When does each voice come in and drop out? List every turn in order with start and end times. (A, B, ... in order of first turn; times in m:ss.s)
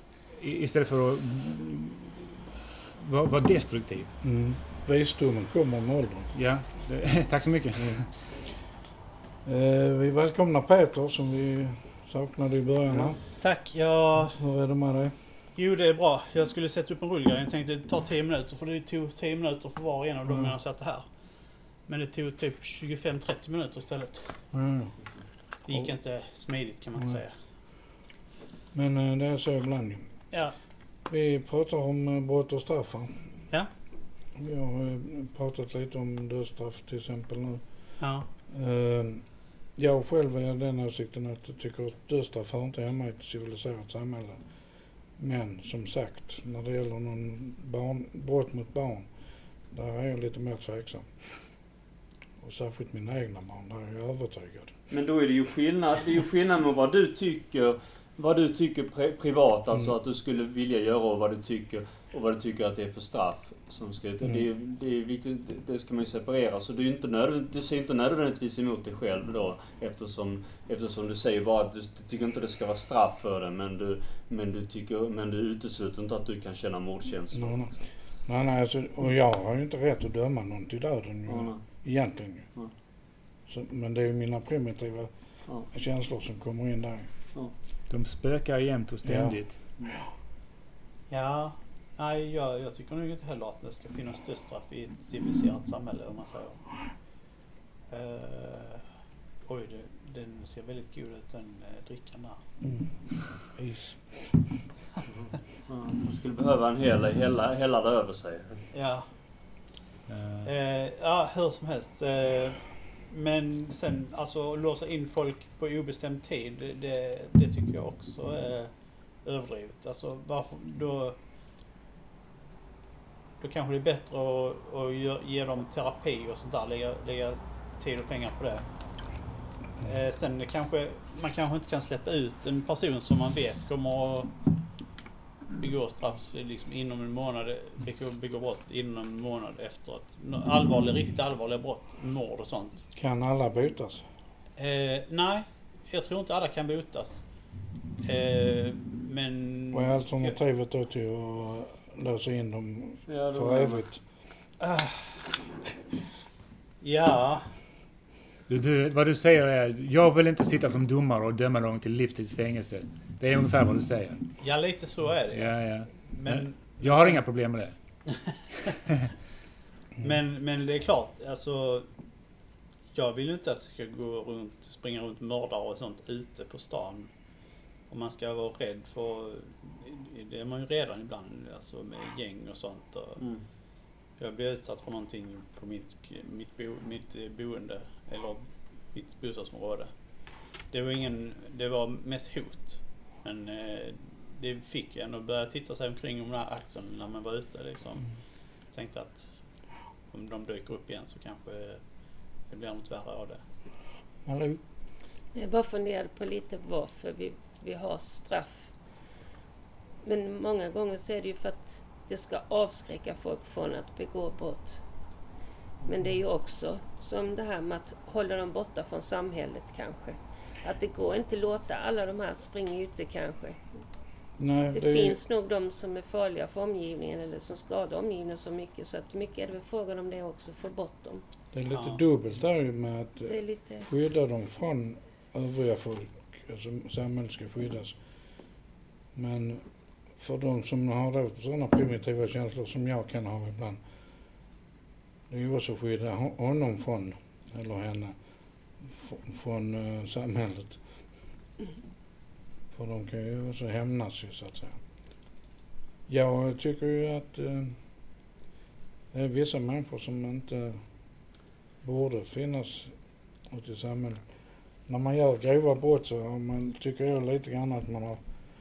0:00.3-0:04.1 A
0:04.2-0:06.3 B
0:06.3-0:08.1 A
0:07.8-0:08.0 B
0:09.4-0:13.2 B
0:13.4-0:14.4 C
0:14.4-0:15.2 B
0:15.6-0:21.1 C
0:20.3-0:20.5 B
0:21.8-0:24.3 C
0:24.5-0:24.9 B
0:25.6-0:27.3 C
0:28.7-0:30.1 B
0:31.1-0:33.4 B
0:34.4-0:44.4 B
0:38.0-0:38.3 C
0:45.2-0:49.1 B
0:49.7-0:51.5 B
0:52.4-0:54.8 B
0:54.9-1:17.7 D
1:17.3-1:17.7 B
1:18.2-1:22.5 B
1:21.3-1:21.6 D
1:23.4-1:25.1 B
1:25.7-1:27.1 B
1:27.9-1:29.6 A
1:29.0-1:29.3 B
1:31.1-1:36.7 C
1:37.9-1:38.8 C
1:39.4-1:42.4 C
1:42.6-1:44.7 B
1:45.6-1:48.6 D
1:48.7-1:49.1 C
1:50.1-1:50.5 A
1:50.4-2:01.2 C
2:03.4-2:08.6 C
2:09.8-2:14.3 C
2:15.6-2:22.8 C
2:22.9-2:24.0 B
2:24.6-2:27.2 C
2:28.0-2:30.4 C
2:29.7-2:34.0 B
2:33.1-2:33.8 D
2:34.6-2:35.4 C
2:36.8-2:37.5 C
2:38.5-2:44.2 A
2:44.4-2:47.2 C
2:45.3-2:47.7 A
2:48.1-2:48.8 C
2:50.0-2:51.8 C
2:52.9-2:57.1 C
2:57.9-3:03.2 C
3:04.2-3:09.9 C
3:10.7-3:18.2 C
3:18.7-3:19.3 C
3:20.1-3:21.8 C
3:22.4-3:23.4 C
3:24.2-3:24.6 B
3:25.3-3:28.7 E
3:30.0-3:34.8 E
3:35.9-3:43.6 E
3:44.4-3:45.2 B
3:44.7-3:51.2 E
3:51.5-3:58.0 B
3:51.7-3:52.0 C
3:53.3-3:53.9 E
3:59.1-3:59.6 B
4:00.2-4:03.8 B
4:05.3-4:08.2 B
4:08.8-4:10.8 B
4:12.7-4:14.8 B
4:16.1-4:17.8 B
4:19.1-4:20.9 B
4:21.8-4:23.0 B
4:23.5-4:24.3 B
4:24.8-4:28.2 B